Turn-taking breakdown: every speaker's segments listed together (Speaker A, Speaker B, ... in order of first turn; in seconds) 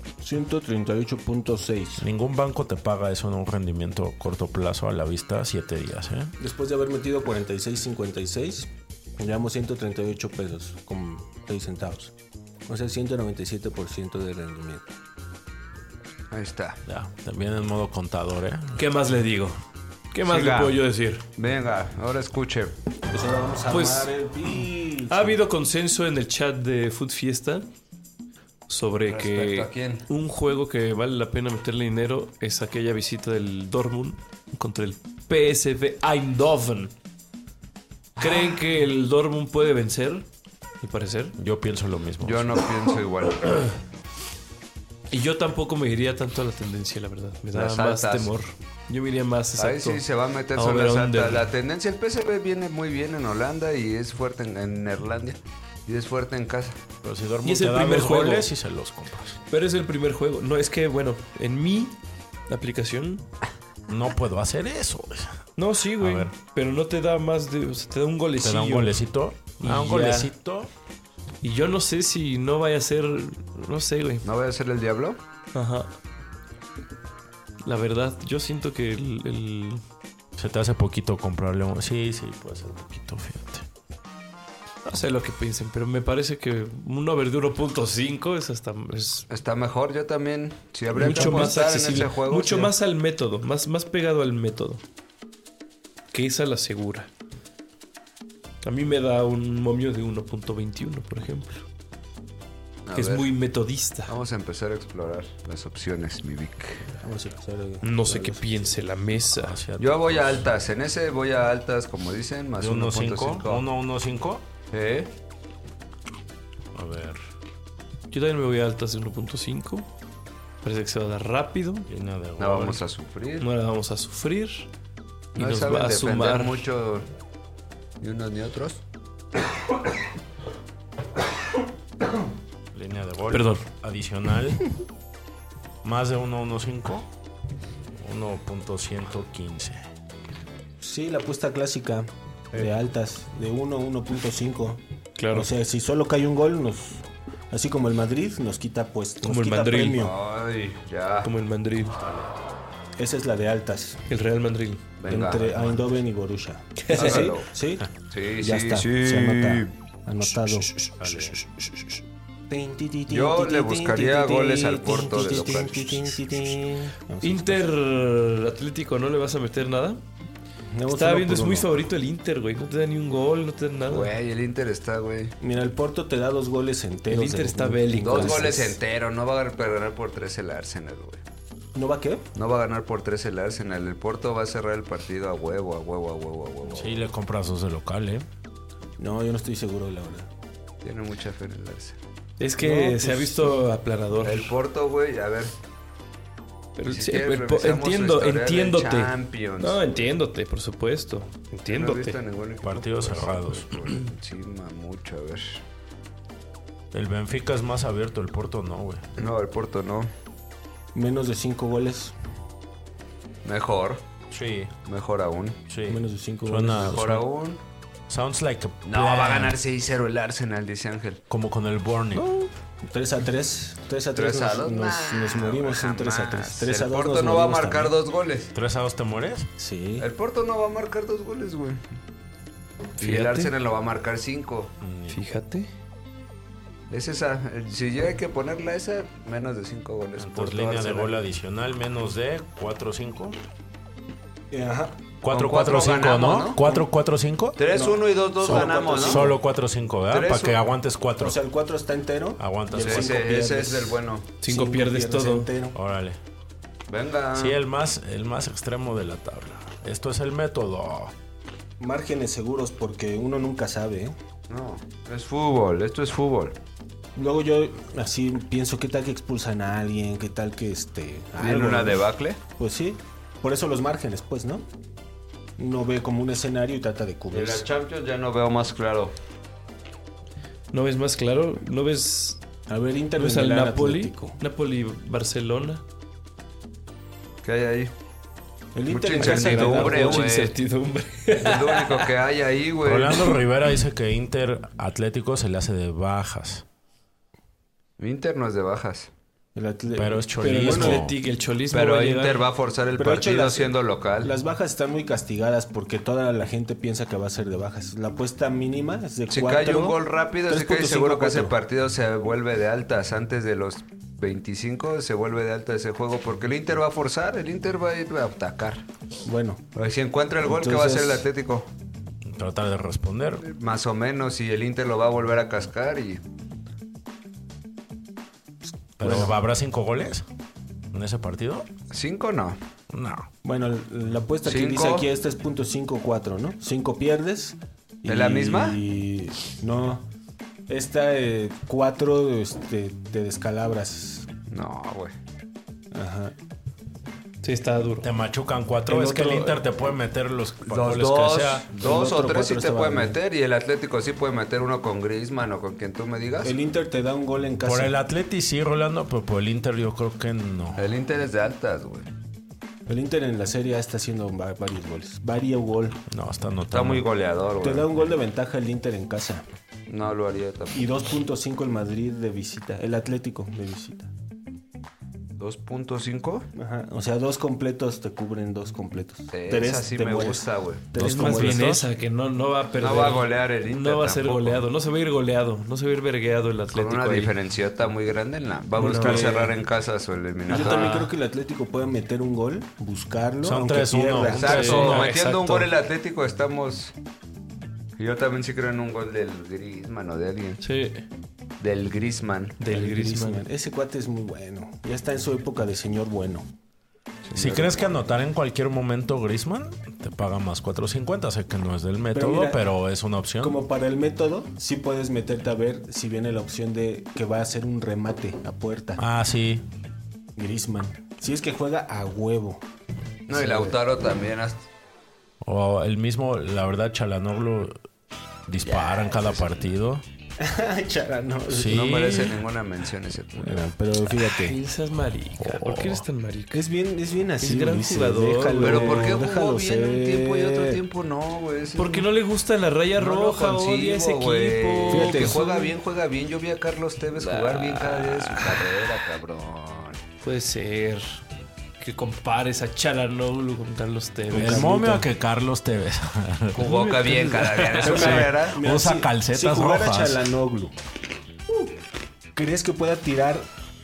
Speaker A: 0.2-2.0, 6.4-12.1, 12.7-14.9, 23.1-25.4, 90.9-91.6, 107.0-108.8, 140.8-144.8, 145.3-150.1, 153.0-154.0, 155.1-157.9, 158.4-160.7, 162.5-167.7, 170.7-171.8, 175.4-178.8, 181.7-182.2, 189.0-190.3, 192.6-193.6, 210.9-212.1, 215.9-217.0, 222.8-227.9, 229.6-230.1, 244.5-245.0, 246.3-246.9, 247.7-249.3, 251.2-255.8, 261.8-264.1, 267.1-274.6, 275.6-277.6, 282.7-284.4, 288.7-290.3, 299.5-301.0, 302.9-311.5, 319.2-319.6, 320.4-321.3, 329.0-329.3, 333.4-340.1, 340.7-344.3, 345.9-346.3, 348.9-349.6, 351.7-353.2, 356.4-357.9, 362.9-366.0, 367.6-369.4, 370.7-374.1, 376.5-381.8, 388.8-389.6, 390.5-394.7, 402.7-406.5, 412.1-412.6, 413.4-419.0, 420.4-422.6, 423.3-423.8, 430.4-432.1, 433.4-434.6, 436.5-440.8, 444.9-445.7, 454.3-455.0, 457.8-460.7, 462.3-463.5
Speaker B: 2.0-6.3, 16.9-18.8, 41.4-42.6, 57.0-59.4, 63.9-65.4, 66.0-66.3, 68.4-70.7, 80.3-83.7, 109.3-110.5, 112.6-114.4, 116.7-117.2, 121.9-122.8, 132.7-134.7, 135.8-137.1, 137.9-139.8, 152.0-152.3, 161.0-161.4, 186.7-188.2, 202.6-203.8, 206.9-209.0, 214.3-214.7, 215.7-217.2, 218.1-219.6, 221.3-222.3, 228.5-229.5, 234.8-235.2, 240.2-243.4, 245.2-247.6, 248.4-251.4, 252.4-253.2, 255.7-256.2, 257.3-261.1, 292.8-296.6, 299.9-301.1, 322.2-323.4, 329.0-330.2, 330.9-331.7, 332.9-333.3, 348.0-351.7, 357.6-360.9, 366.1-367.1, 380.9-381.8, 393.4-395.1, 407.3-413.6, 419.0-419.6, 425.4-427.8, 428.5-430.0, 431.5-432.4, 435.4-436.0, 454.3-456.7, 457.9-460.2
Speaker C: 16.3-16.8, 20.2-20.8, 21.4-22.7, 29.1-30.1, 38.2-38.5, 42.2-43.7, 47.5-48.3, 49.6-56.8, 74.2-75.2, 89.3-92.7, 102.8-103.3, 104.1-106.9, 109.8-113.7, 114.7-115.1, 122.4-123.5, 125.3-127.1, 128.0-128.8, 149.9-151.3, 155.0-155.8, 156.9-157.5, 158.1-159.7, 163.1-166.2, 173.9-175.3, 178.0-181.2, 182.3-187.0, 190.8-192.0, 194.2-195.5, 196.9-199.8, 201.7-205.6, 209.2-210.1, 213.4-214.0, 214.8-215.6, 216.8-217.6, 218.8-221.2, 224.1-228.5, 230.0-231.9, 233.0-234.7, 236.9-241.1, 245.3-246.6, 247.6-249.3, 250.1-250.6, 252.8-254.3, 256.9-257.6, 264.5-266.6, 271.4-272.4, 277.3-279.1, 287.4-287.9, 288.9-290.5, 291.3-293.4, 298.0-299.1, 301.7-304.3, 309.3-318.8, 319.7-321.7, 323.4-326.2, 331.9-332.6, 334.4-335.1, 338.1-338.8, 344.5-345.1, 350.6-356.6, 360.8-362.1, 366.7-368.1, 369.9-370.9, 375.4-376.5, 379.3-380.9, 382.8-384.6, 386.7-391.1, 394.3-396.9, 398.0-400.6, 401.6-402.6, 407.2-408.0, 423.3-424.6, 428.6-429.7, 431.7-433.7, 438.6-442.1, 443.0-450.0, 456.5-458.6
Speaker D: 18.8-19.6, 20.1-21.2, 23.7-24.1, 25.1-27.7, 28.7-36.9, 38.2-40.2, 40.8-41.4, 45.1-51.5, 57.4-58.5, 59.5-62.0, 62.5-63.2, 65.6-69.0, 69.6-70.3, 71.4-74.2, 75.5-75.9, 77.6-79.8, 84.8-89.3, 90.9-94.8, 96.1-97.1, 98.6-101.6, 102.9-104.1, 107.8-109.6, 118.1-119.9, 120.6-121.9, 123.4-124.7, 125.3-126.7, 133.3-133.7, 145.2-145.5, 149.2-150.0, 151.2-152.0, 154.1-154.9, 156.8-157.3, 160.3-161.8, 167.2-170.0, 170.9-174.1, 177.1-178.6, 192.4-194.6, 196.8-202.2, 233.0-233.5, 235.1-235.7, 254.4-255.5, 280.7-282.4, 283.2-285.8, 289.1-292.1, 300.4-302.5, 347.4-348.1, 381.0-387.3, 388.8-389.3, 390.5-391.1, 394.3-395.7, 400.6-401.0, 402.6-403.4, 434.1-436.6, 437.4-439.1, 441.8-445.5, 447.1-449.1, 450.2-451.2, 451.8-455.0, 456.6-458.3